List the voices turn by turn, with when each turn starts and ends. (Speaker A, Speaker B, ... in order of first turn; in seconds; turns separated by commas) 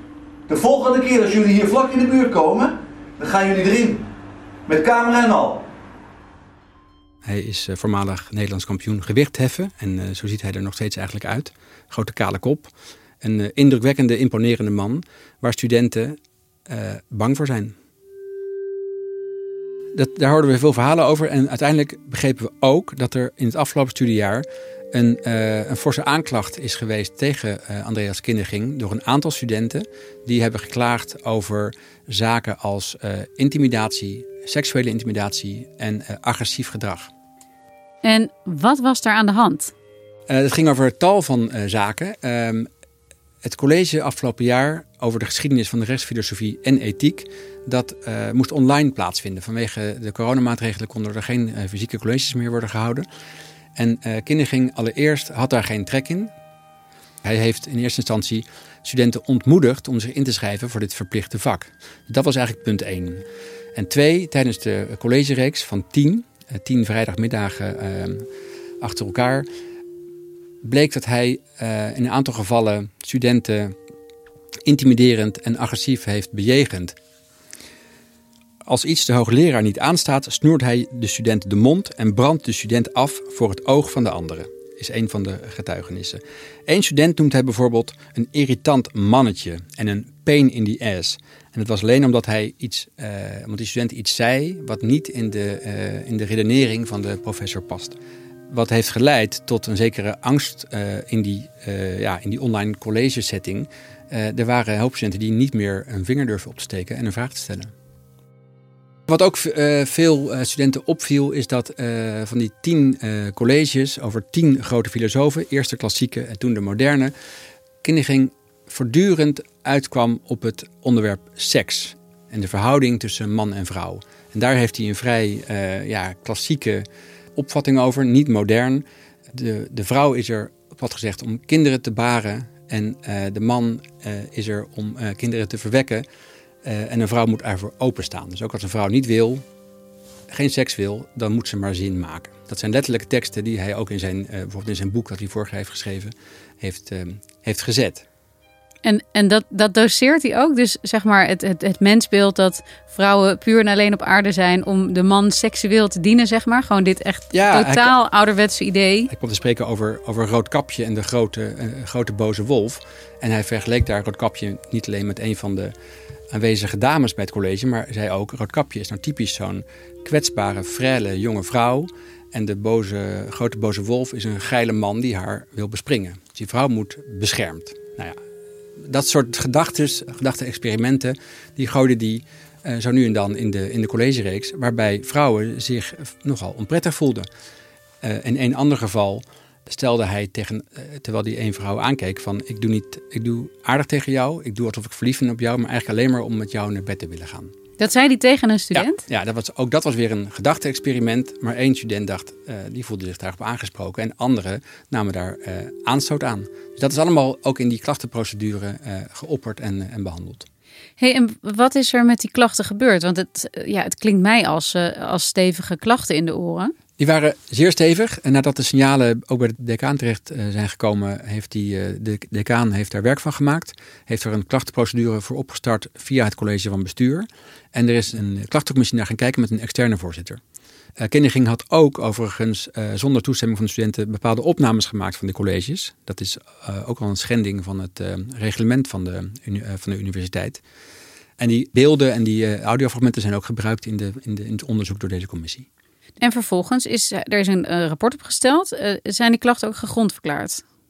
Speaker A: 0.5-4.1, Speaker A: 4.7-5.6, Speaker B: 7.2-17.7, Speaker B: 19.9-37.1, Speaker C: 38.0-39.7, Speaker B: 40.3-42.7, Speaker B: 43.4-53.0, Speaker B: 53.8-56.3, Speaker B: 57.2-63.2, Speaker B: 63.8-68.3, Speaker B: 68.8-69.5, Speaker B: 70.6-73.8, Speaker B: 74.7-77.0, Speaker B: 78.6-98.0, Speaker B: 98.5-107.7, Speaker B: 109.1-117.1, Speaker B: 117.8-126.8, Speaker B: 127.3-136.0, Speaker B: 136.6-139.4, Speaker B: 140.3-148.0, Speaker C: 148.8-159.1, Speaker B: 157.3-157.9, Speaker B: 159.1-165.7, Speaker B: 166.3-178.2, Speaker B: 178.8-187.3, Speaker B: 188.0-197.5, Speaker C: 197.8-199.0, Speaker B: 198.7-210.5, Speaker C: 211.0-216.7, Speaker B: 217.0-230.4, Speaker B: 231.0-240.6, Speaker B: 241.4-245.7, Speaker C: 246.2-250.6